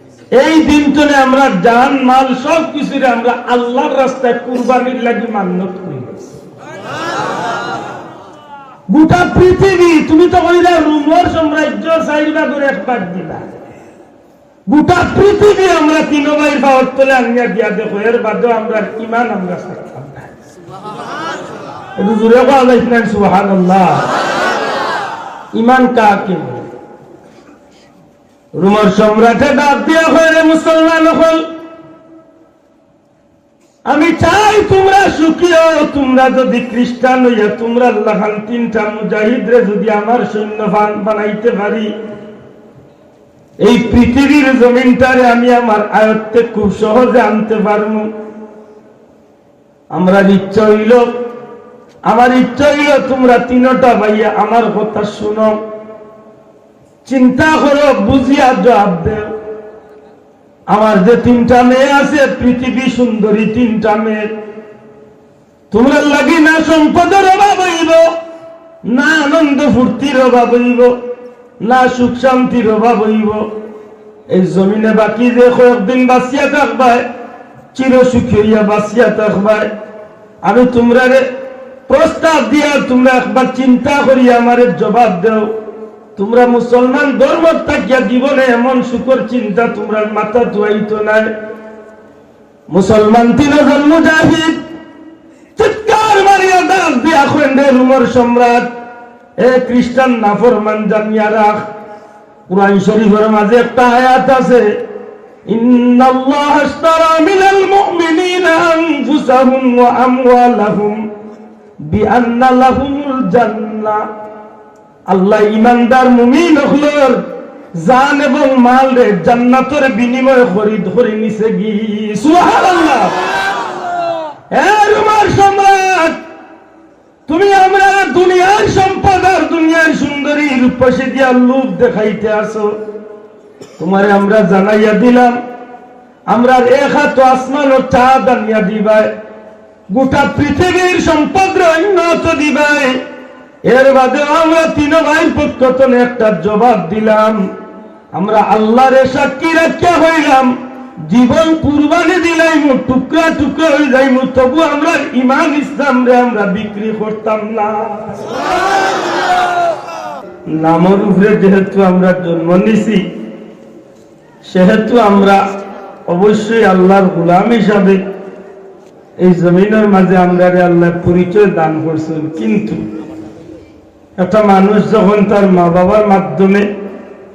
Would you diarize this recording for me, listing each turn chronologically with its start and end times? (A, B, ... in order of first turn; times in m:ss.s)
0:00.3-0:06.3 A
0:08.9-0:13.5 A
0:14.7-0:20.3 A
0:22.0-0:24.1 A
0:25.5-0:26.7 A
0:28.6-0:31.5 A
0:33.9-0:41.9 A
0:43.6-0:48.1 A
0:49.9-0:51.2 A
0:52.0-0:55.6 A
0:57.0-0:59.3 A
1:00.7-1:04.3 A
1:05.7-1:08.1 A
1:08.8-1:10.9 A
1:11.6-1:13.5 A
1:14.3-1:17.0 A
1:17.7-1:19.7 A
1:20.4-1:21.3 A
1:21.9-1:25.5 A
1:26.2-1:31.3 A
1:32.7-1:34.6 A
1:35.6-1:38.7 A
1:39.4-1:41.7 A
1:42.5-1:44.8 A
1:45.5-1:51.0 A
1:51.8-1:54.1 A
1:55.1-2:03.2 A
2:04.5-2:06.2 A
2:07.3-2:12.8 A
2:13.8-2:15.4 A
2:16.3-2:19.1 A
2:19.9-2:23.0 A
2:23.6-2:27.5 A
2:28.1-2:38.3 A
2:40.5-2:43.0 A
2:44.4-2:45.4 A
2:46.1-2:48.0 A
2:49.2-2:52.8 A
2:54.2-2:56.7 A